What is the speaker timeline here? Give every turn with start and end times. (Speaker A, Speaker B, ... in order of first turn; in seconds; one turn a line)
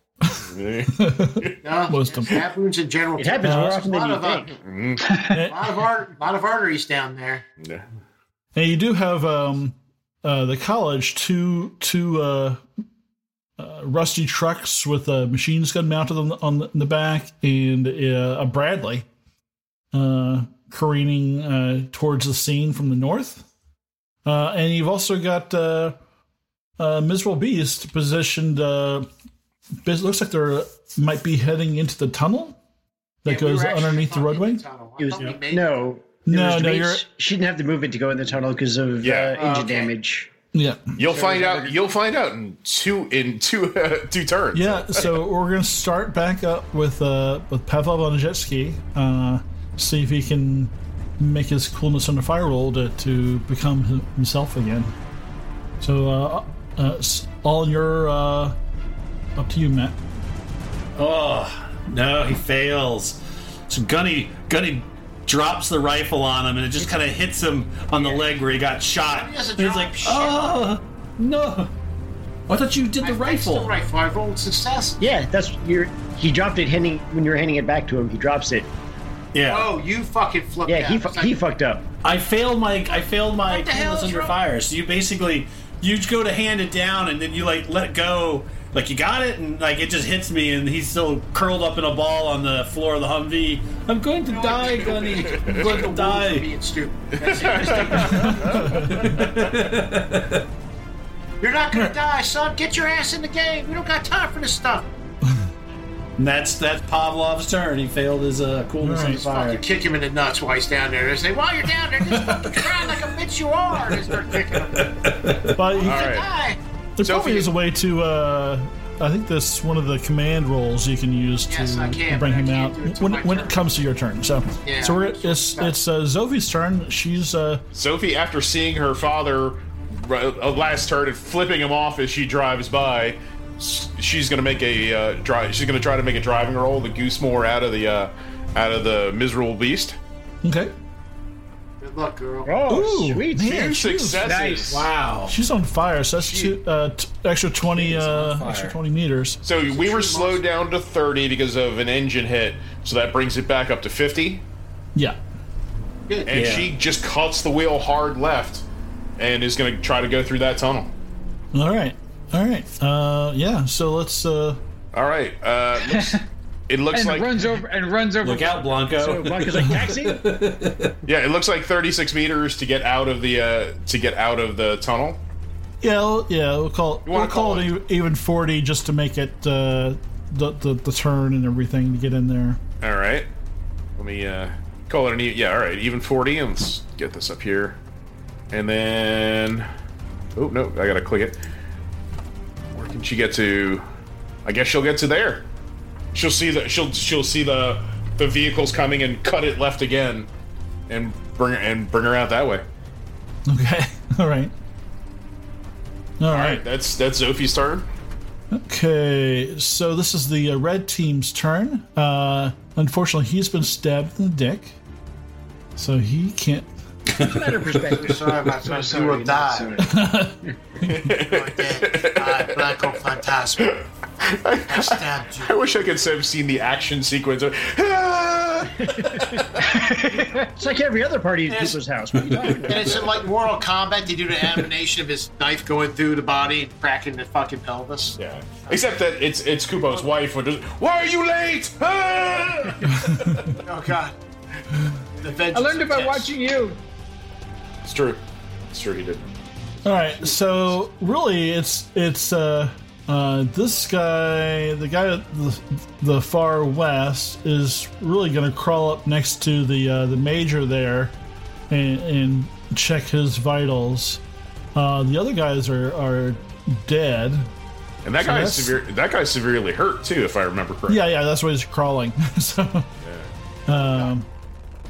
Speaker A: 0.2-2.4
Speaker B: 0.4-1.6
Speaker C: 1.6-4.6
Speaker D: 3.2-4.5
Speaker A: 3.4-3.8
Speaker B: 4.6-5.1
Speaker A: 5.3-5.7
Speaker C: 5.3-7.4
Speaker A: 8.5-12.6
Speaker A: 13.6-19.1
Speaker A: 19.9-23.5
Speaker A: 24.2-25.9
Speaker A: 26.8-29.1
Speaker A: 29.8-32.6
Speaker A: 33.2-34.6
Speaker C: 33.3-35.9
Speaker D: 35.0-40.3
Speaker A: 36.2-37.0
Speaker B: 39.0-39.4
Speaker C: 39.3-39.9
Speaker A: 40.5-41.0
Speaker B: 41.0-45.2
Speaker D: 41.1-41.7
Speaker A: 44.5-54.9
Speaker A: 55.8-58.5
Speaker A: 59.4-60.0
Speaker E: 61.0-63.2
Speaker E: 63.7-71.7
Speaker C: 68.0-68.2
Speaker C: 69.0-70.5
Speaker E: 72.5-73.7
Speaker C: 73.0-75.0
Speaker D: 75.0-78.7
Speaker E: 79.3-79.7
Speaker C: 79.5-81.3
Speaker D: 80.7-81.8
Speaker E: 82.0-96.5
Speaker C: 83.5-84.3
Speaker C: 94.3-99.1
Speaker B: 95.2-95.8
Speaker B: 97.2-99.5
Speaker E: 97.4-100.5
Speaker A: 98.1-99.2
Speaker C: 101.4-104.9
Speaker E: 106.2-109.6
Speaker A: 108.8-109.2
Speaker C: 109.0-115.1
Speaker E: 112.1-112.5
Speaker E: 113.9-115.5
Speaker A: 115.5-116.0
Speaker C: 115.7-116.6
Speaker B: 115.8-116.3
Speaker A: 117.0-127.6
Speaker B: 117.0-117.5
Speaker C: 121.5-123.6
Speaker C: 124.6-125.8
Speaker B: 127.7-140.0
Speaker A: 140.4-140.7
Speaker C: 141.8-142.6
Speaker D: 142.4-143.6
Speaker A: 142.7-144.3
Speaker B: 143.4-144.9
Speaker F: 144.2-144.9
Speaker E: 144.7-145.3
Speaker A: 145.3-149.4
Speaker B: 146.2-146.5
Speaker E: 147.7-148.8
Speaker B: 149.4-154.4
Speaker C: 149.7-150.4
Speaker B: 156.2-158.6
Speaker E: 156.3-156.7
Speaker B: 159.2-160.9
Speaker A: 161.5-164.6
Speaker B: 164.9-167.3
Speaker F: 165.8-166.2
Speaker F: 166.9-169.1
Speaker E: 168.2-171.0
Speaker D: 168.9-170.2
Speaker B: 171.0-175.2
Speaker A: 175.8-182.6
Speaker B: 177.1-177.7
Speaker B: 182.8-183.3
Speaker B: 184.0-187.8
Speaker B: 188.5-189.7
Speaker B: 190.3-191.4
Speaker B: 192.7-193.8
Speaker B: 194.4-195.4
Speaker B: 196.1-200.3
Speaker B: 200.9-202.6
Speaker A: 203.5-204.5
Speaker A: 206.2-206.6
Speaker B: 206.3-207.9
Speaker A: 208.5-214.7
Speaker A: 215.8-216.7
Speaker D: 217.1-218.3
Speaker E: 217.2-218.0
Speaker C: 217.9-219.8
Speaker F: 218.6-220.0
Speaker A: 219.8-221.1
Speaker B: 220.8-222.9
Speaker C: 221.1-223.7
Speaker B: 223.6-229.7
Speaker C: 224.7-225.6
Speaker D: 228.8-229.4
Speaker F: 229.6-230.5
Speaker D: 230.5-233.2
Speaker C: 231.5-231.8
Speaker C: 232.6-238.8
Speaker B: 238.2-243.6
Speaker A: 242.9-243.4
Speaker C: 243.6-244.2
Speaker C: 245.2-246.3
Speaker F: 245.5-246.8
Speaker B: 247.8-249.3
Speaker A: 249.8-261.1
Speaker A: 261.7-264.2
Speaker A: 264.7-267.5
Speaker B: 268.0-271.0
Speaker A: 268.2-268.7
Speaker A: 270.9-272.9
Speaker B: 273.0-273.3
Speaker A: 273.7-274.3
Speaker C: 273.7-274.1